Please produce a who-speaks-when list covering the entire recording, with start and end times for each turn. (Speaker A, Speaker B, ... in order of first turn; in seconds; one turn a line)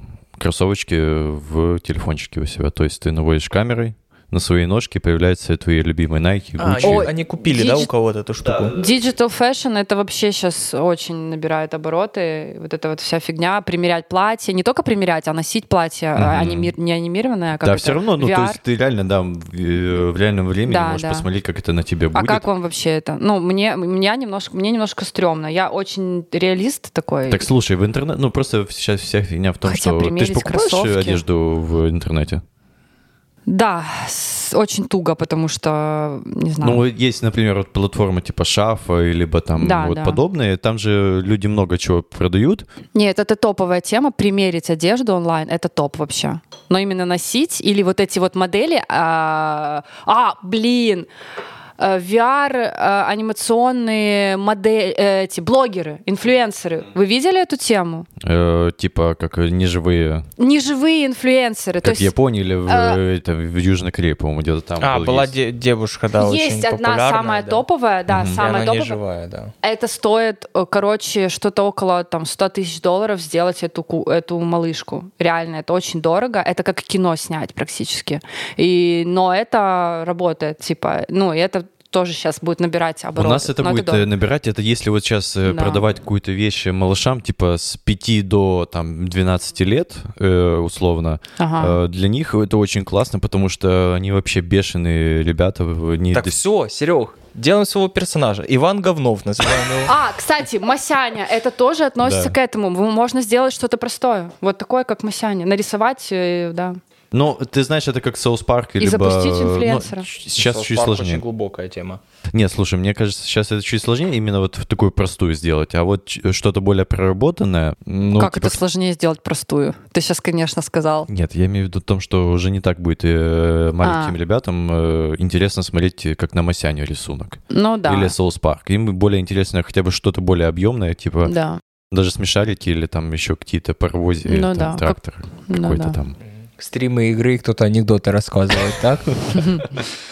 Speaker A: 0.4-7.1
Speaker B: 6.6-8.8
Speaker C: 6.8-7.9
Speaker A: 8.4-9.0
Speaker C: 8.8-18.6
Speaker A: 16.1-16.7
Speaker A: 17.6-22.4
Speaker C: 20.6-21.2
Speaker C: 22.1-27.4
Speaker A: 27.3-32.4
Speaker C: 29.6-31.2
Speaker C: 33.5-36.8
Speaker A: 36.6-42.7
Speaker C: 39.6-40.2
Speaker C: 42.9-51.1
Speaker C: 51.8-58.1
Speaker A: 58.2-60.3
Speaker C: 60.4-62.1
Speaker A: 61.8-65.3
Speaker C: 62.7-63.0
Speaker B: 64.8-67.6
Speaker C: 66.1-69.0
Speaker A: 68.1-68.4
Speaker B: 68.3-69.5
Speaker C: 69.6-84.1
Speaker A: 83.2-96.4
Speaker C: 85.5-85.8
Speaker C: 91.4-91.8
Speaker B: 96.1-99.9
Speaker C: 99.8-106.8
Speaker A: 102.0-102.3
Speaker A: 107.1-111.2
Speaker C: 108.8-110.1
Speaker B: 110.3-112.0
Speaker A: 112.3-118.6
Speaker C: 118.2-121.1
Speaker A: 121.1-131.3
Speaker C: 123.8-124.2
Speaker C: 127.5-128.1
Speaker C: 131.2-131.6
Speaker A: 131.9-136.2
Speaker C: 134.2-136.0
Speaker B: 136.3-139.2
Speaker C: 139.3-139.6
Speaker A: 139.3-139.9